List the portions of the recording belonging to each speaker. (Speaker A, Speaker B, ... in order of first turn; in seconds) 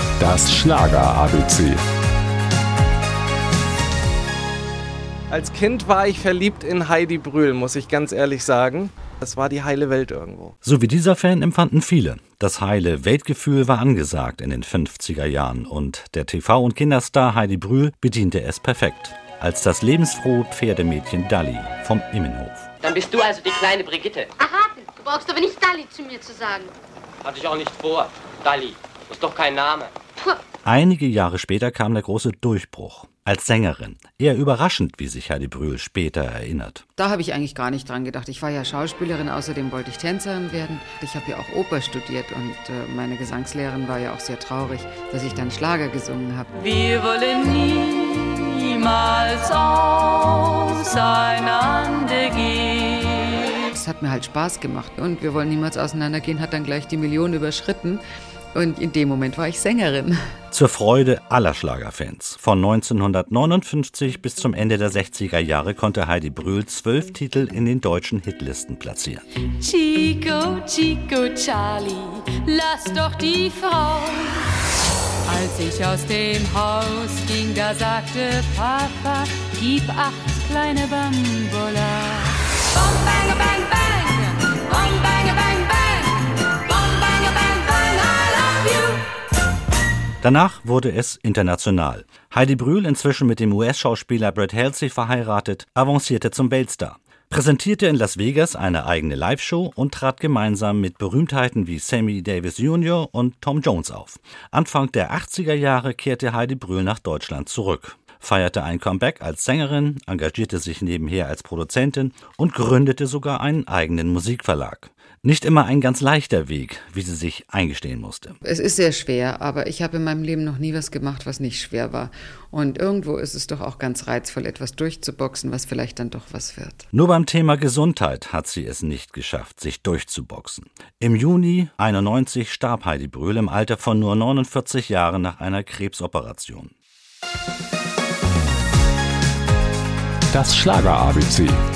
Speaker A: 0.2-1.8, 140.3-141.6
Speaker B: 5.3-10.5
Speaker C: 10.6-22.7, 30.6-36.8, 60.5-69.2, 90.2-118.4, 126.9-136.8
Speaker D: 22.8-24.3, 27.2-29.9
Speaker E: 24.4-26.7
Speaker F: 37.0-46.5, 53.7-58.0, 58.5-60.2, 118.4-126.9
Speaker G: 46.6-53.5, 69.6-74.5, 75.3-89.0